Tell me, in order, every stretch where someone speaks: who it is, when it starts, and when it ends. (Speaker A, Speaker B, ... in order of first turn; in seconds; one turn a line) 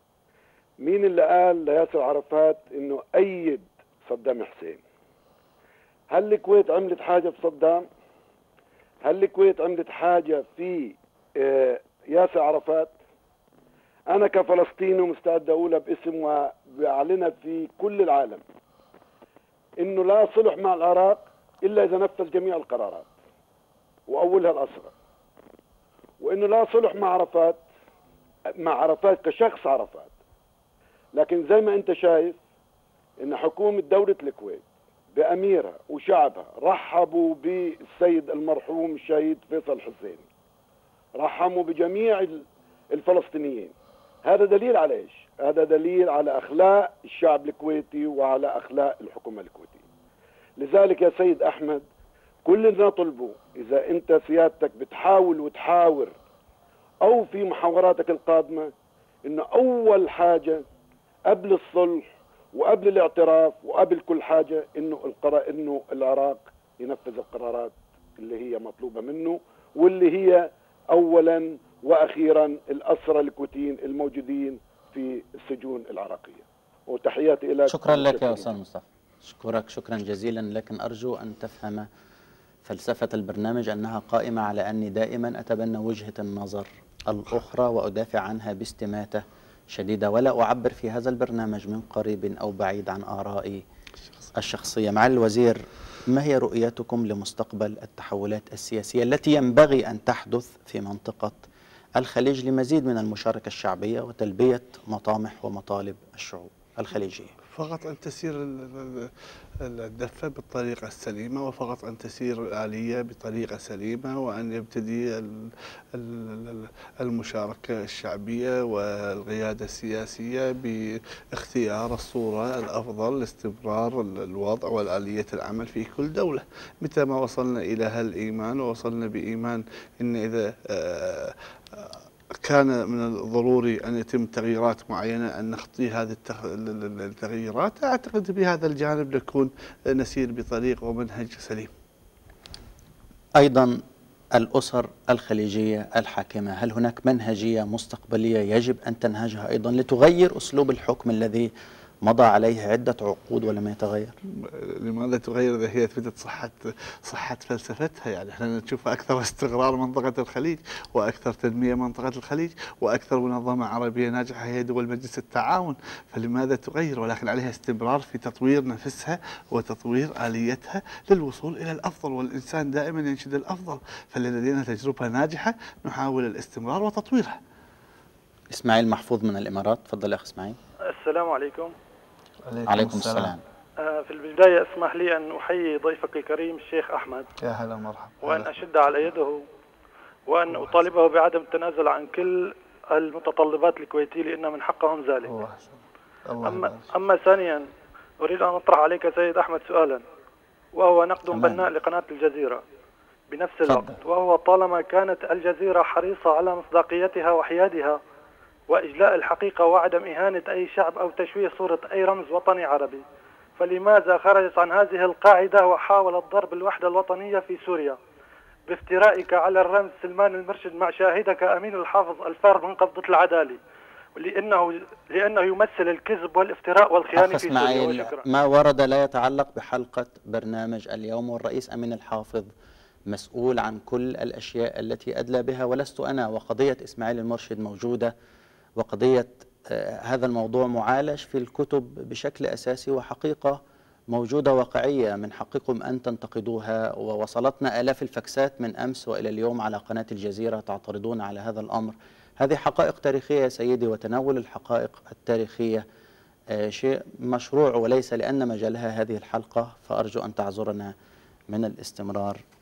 Speaker A: 0.8-4.8
Speaker A: 6.1-7.9
Speaker A: 9.0-13.0
Speaker A: 14.1-18.4
Speaker A: 19.8-23.1
Speaker A: 24.1-24.9
Speaker A: 26.2-27.6
Speaker A: 28.6-30.1
Speaker A: 31.1-32.4
Speaker A: 33.2-34.6
Speaker A: 35.1-40.2
Speaker A: 41.2-43.7
Speaker A: 44.2-49.9
Speaker A: 50.6-51.8
Speaker A: 52.5-56.1
Speaker A: 57.0-58.7
Speaker A: 59.2-60.6
Speaker A: 61.3-78.5
Speaker B: 77.7-81.9
Speaker B: 82.7-93.6
Speaker B: 94.4-101.5
Speaker B: 102.0-107.3
Speaker C: 107.5-141.7
Speaker B: 143.4-143.8
Speaker B: 144.3-151.5
Speaker B: 152.0-154.1
Speaker C: 154.4-177.4
Speaker B: 178.5-180.6
Speaker D: 180.9-181.7
Speaker C: 182.4-183.4
Speaker B: 182.7-183.4
Speaker D: 183.8-187.3
Speaker C: 187.4-188.5
Speaker D: 188.2-189.5
Speaker D: 190.3-195.3
Speaker C: 190.5-190.9
Speaker C: 195.2-196.9
Speaker D: 196.4-197.7
Speaker D: 198.2-200.0
Speaker D: 200.8-202.6
Speaker B: 201.3-201.7
Speaker D: 203.3-208.0
Speaker B: 203.7-203.9
Speaker D: 208.7-213.0
Speaker D: 213.6-218.0
Speaker D: 218.7-223.6
Speaker D: 224.2-228.2
Speaker B: 227.1-232.5
Speaker B: 233.1-238.1
Speaker B: 238.8-243.6
Speaker B: 244.1-255.8
Speaker B: 256.5-260.9
Speaker B: 261.5-262.4